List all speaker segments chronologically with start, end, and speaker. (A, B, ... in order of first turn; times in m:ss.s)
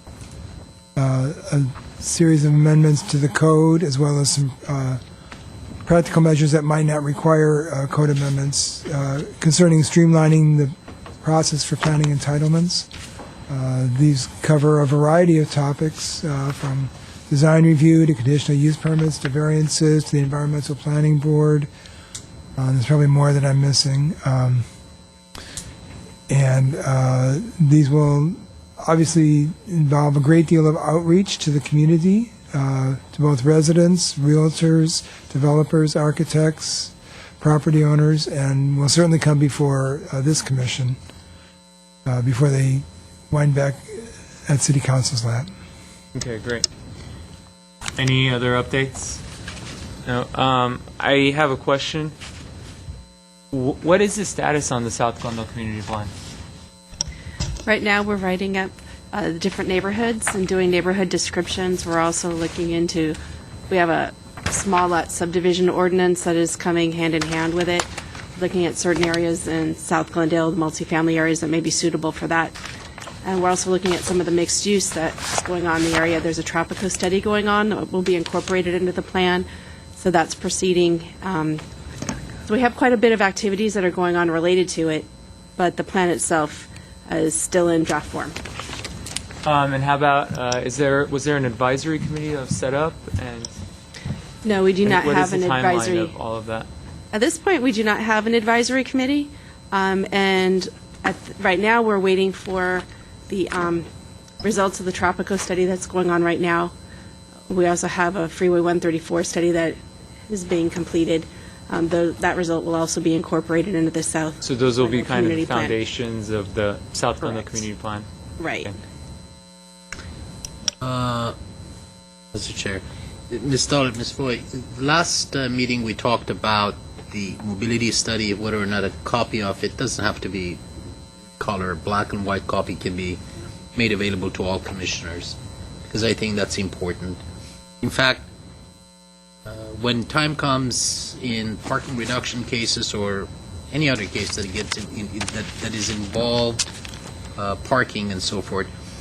0:01.0-0:05.0 A
0:05.9-0:12.9 A
0:13.5-0:21.7 A
0:22.6-0:24.6 A
0:26.3-0:41.0 A
0:42.1-0:45.5 A
0:46.2-0:46.7 B
0:48.0-0:49.2 B
0:50.0-0:52.2 B
0:53.5-0:56.1 B
0:57.7-1:03.2 C
1:03.7-1:12.6 C
1:13.2-1:19.5 C
1:20.0-1:21.6 C
1:22.5-1:28.4 C
1:29.4-1:33.5 B
1:34.4-1:36.2 C
1:34.8-1:36.7 B
1:37.1-1:43.9 C
1:44.4-1:46.7 C
1:47.5-1:49.8 C
1:50.3-1:55.8 C
1:54.4-1:58.1 B
1:57.2-1:57.7 C
1:58.4-1:58.7 C
2:00.8-2:01.4 D
2:02.3-2:10.6 D
2:11.4-2:13.2 D
2:13.8-2:17.2 D
2:17.8-2:18.3 D
2:19.4-2:26.7 D
2:27.4-2:28.7 D